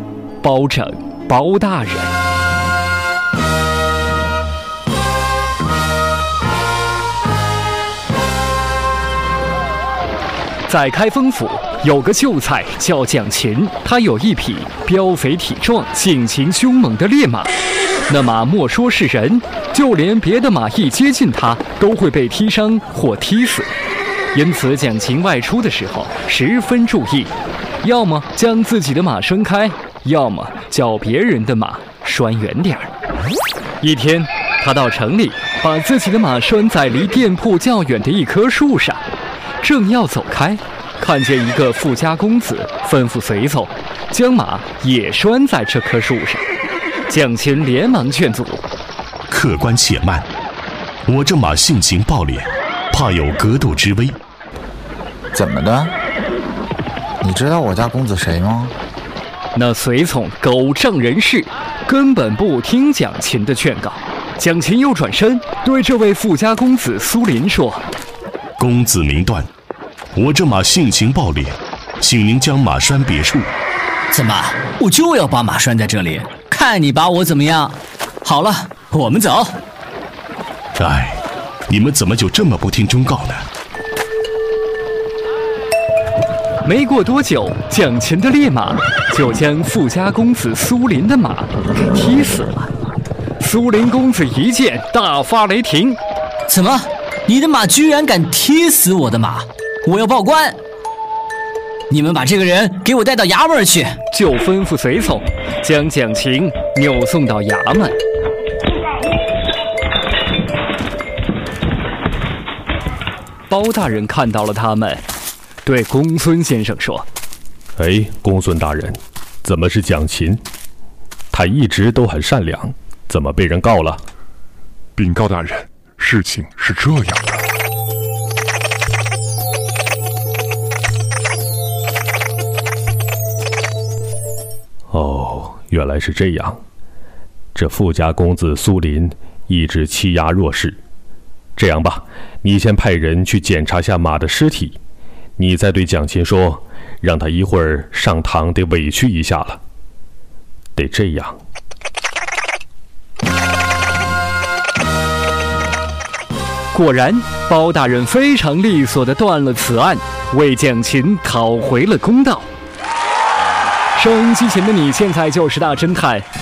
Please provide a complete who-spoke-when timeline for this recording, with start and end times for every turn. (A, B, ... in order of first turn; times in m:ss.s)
0:00.4-0:02.1 A
0:10.7-0:17.5 A
0:18.1-0:23.7 A
0:24.3-0:32.9 A
0:33.8-0:39.0 A
0:39.6-0:46.4 A
0:47.1-0:48.6 A
0:49.3-0:50.2 B
0:51.1-0:54.2 B
0:55.3-0:55.9 C
0:57.2-0:58.7 C
0:59.6-1:07.8 A
1:08.6-1:09.5 B
1:10.2-1:13.5 B
1:14.1-1:19.6 D
1:20.8-1:21.2 B
1:21.7-1:23.4 B
1:26.6-1:32.7 A
1:33.4-1:36.0 A
1:36.5-1:40.6 D
1:41.9-1:44.0 D
1:44.1-1:48.0 A
1:53.5-1:55.0 A
1:55.6-1:57.0 A
1:57.8-2:00.4 E
2:01.3-2:04.0 E
2:05.0-2:07.3 F
2:14.9-2:16.6 E
2:17.5-2:20.8 E
2:21.6-2:24.8 E
2:25.4-2:29.6 E
2:30.8-2:31.4 E
2:36.7-2:42.5 A
2:43.9-2:46.2 A